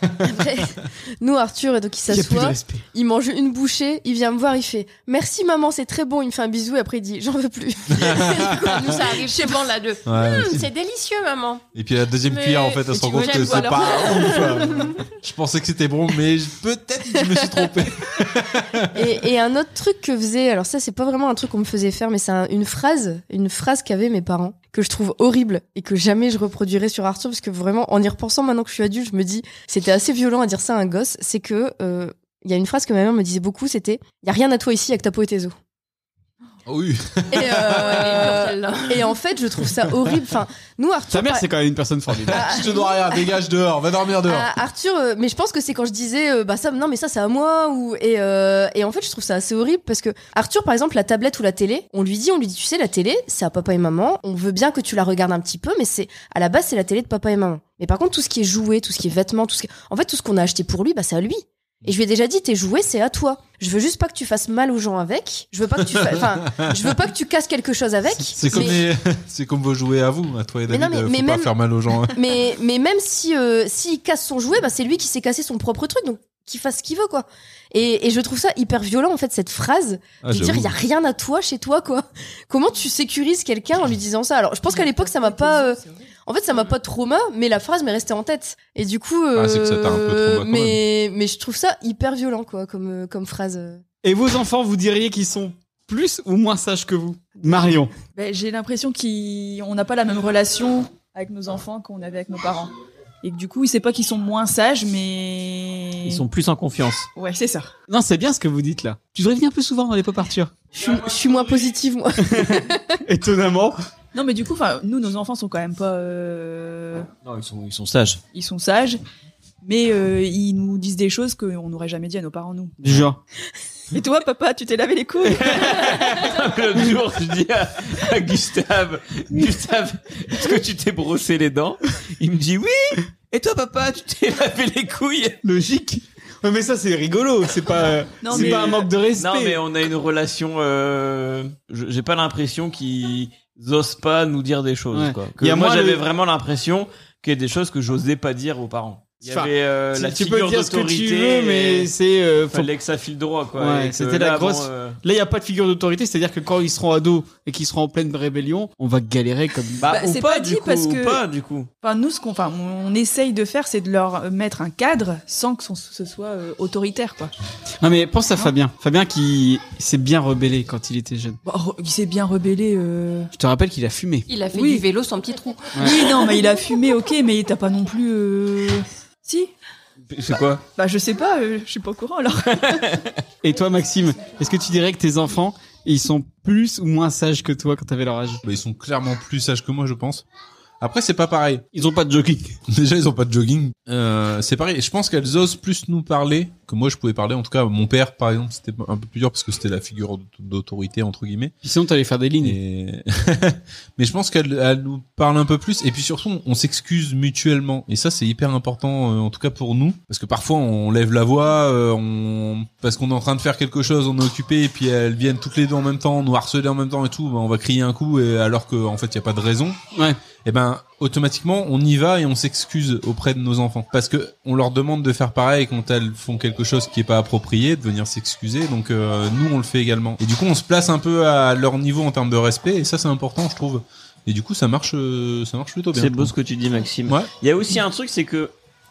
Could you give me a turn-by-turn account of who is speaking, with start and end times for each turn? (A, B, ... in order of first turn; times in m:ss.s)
0:00.2-0:09.5 A
0:02.1-0:02.8 B
0:08.0-0:08.7 C
0:08.4-0:11.7 D
0:10.1-0:10.6 C
0:11.7-0:18.9 C
0:12.2-0:15.0 D
0:18.9-0:35.5 A
0:36.7-0:38.0 C
0:37.3-0:41.5 A
0:37.6-0:39.1 D
0:41.1-0:42.7 B
0:42.3-0:44.5 C
0:42.3-0:43.2 A
0:44.3-1:08.8 A
1:06.0-1:06.7 C
1:08.4-1:08.8 B
1:08.4-1:12.1 C
1:10.7-1:11.5 A
1:12.0-1:33.8 A
1:20.2-1:20.7 C
1:24.7-1:25.7 E
1:29.4-1:30.8 C
1:34.0-1:37.9 B
1:38.2-1:46.2 E
1:46.0-1:47.1 F
1:47.2-1:47.7 E
1:47.9-1:50.5 B
1:50.8-1:53.0 A
1:52.2-1:53.8 B
1:54.1-1:57.1 E
1:57.2-1:58.2 F
1:58.3-1:59.0 E
1:59.6-2:02.8 E
2:02.8-2:03.2 B
2:03.9-2:05.9 E
2:05.2-2:15.4 F
2:15.4-2:19.6 B
2:18.2-2:18.8 E
2:18.3-2:31.9 F
2:24.9-2:26.0 B
2:29.3-2:32.7 B
2:32.5-2:35.0 F
2:33.6-2:39.9 B
2:39.8-2:41.7 F
2:39.9-2:41.2 E
2:41.8-2:47.3 E
2:47.8-2:51.4 B
2:51.4-2:53.3 E
2:53.4-2:54.3 B
2:54.3-2:56.4 D
2:54.5-2:54.8 E
2:55.8-2:59.5 E
3:00.1-3:00.6 F
3:00.8-3:02.8 E
3:02.6-3:03.1 F
3:03.4-3:08.4 B
3:08.4-3:10.2 C
3:10.8-3:11.7 C
3:11.7-3:12.6 B
3:12.7-3:21.6 C
3:21.6-3:22.6 B
3:22.4-3:39.8 C
3:40.4-3:56.3 C
3:56.0-3:58.5 F